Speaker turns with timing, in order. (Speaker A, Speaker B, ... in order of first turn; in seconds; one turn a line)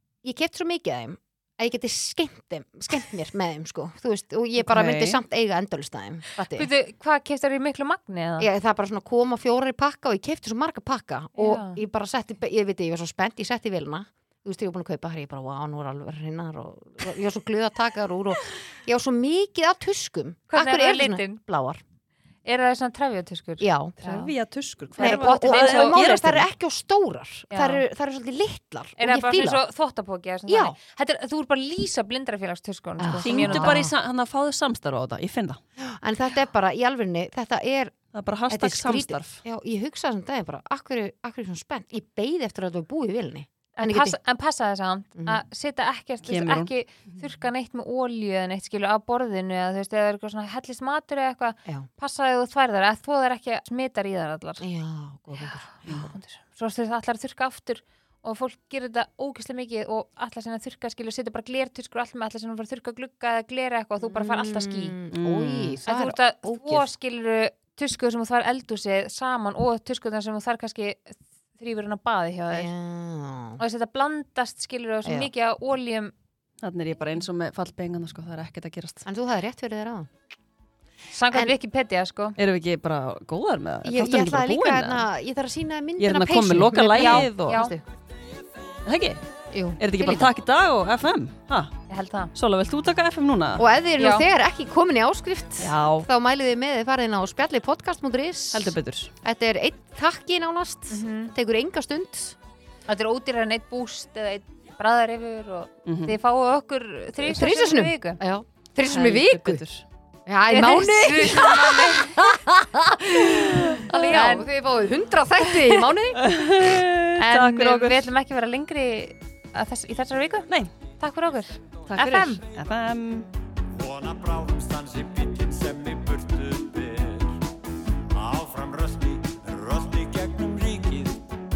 Speaker A: 0.2-6.7
Speaker B: 4.6-5.2
Speaker C: 6.4-8.5
Speaker A: 8.4-21.8
Speaker C: 11.4-11.8
Speaker C: 20.5-21.4
Speaker C: 22.4-24.3
Speaker A: 23.6-24.3
Speaker B: 24.0-26.5
Speaker C: 25.0-26.0
Speaker A: 25.0-29.6
Speaker C: 27.5-27.8
Speaker C: 29.0-33.9
Speaker A: 30.5-30.8
Speaker A: 33.0-33.9
Speaker B: 33.2-35.6
Speaker A: 35.8-38.0
Speaker B: 38.1-39.4
Speaker A: 38.5-44.2
Speaker C: 43.8-54.7
Speaker B: 46.3-46.7
Speaker A: 54.6-56.1
Speaker C: 55.4-65.0
Speaker A: 64.0-66.9
Speaker B: 65.1-65.8
Speaker C: 65.8-72.7
Speaker A: 72.5-73.6
Speaker C: 73.6-76.1
Speaker A: 75.0-75.3
Speaker B: 76.6-79.1
Speaker A: 79.0-80.1
Speaker C: 81.1-82.4
Speaker B: 82.4-85.1
Speaker A: 83.8-87.8
Speaker B: 86.0-87.7
Speaker C: 87.0-87.7
Speaker B: 88.8-89.2
Speaker A: 89.5-90.3
Speaker B: 89.8-91.7
Speaker C: 91.9-92.3
Speaker B: 92.3-93.7
Speaker A: 93.6-102.4
Speaker C: 94.0-94.3
Speaker B: 95.6-96.1
Speaker B: 98.5-99.1
Speaker C: 100.9-101.3
Speaker C: 102.9-108.2
Speaker B: 105.9-106.2
Speaker A: 107.2-109.6
Speaker B: 108.8-109.8
Speaker A: 110.3-116.3
Speaker C: 110.5-112.2
Speaker B: 112.3-112.7
Speaker B: 113.7-114.3
Speaker C: 113.9-114.5
Speaker B: 116.1-118.0
Speaker C: 117.2-120.5
Speaker C: 121.0-122.4
Speaker B: 121.9-123.3
Speaker D: 123.7-127.3
Speaker D: 128.1-131.2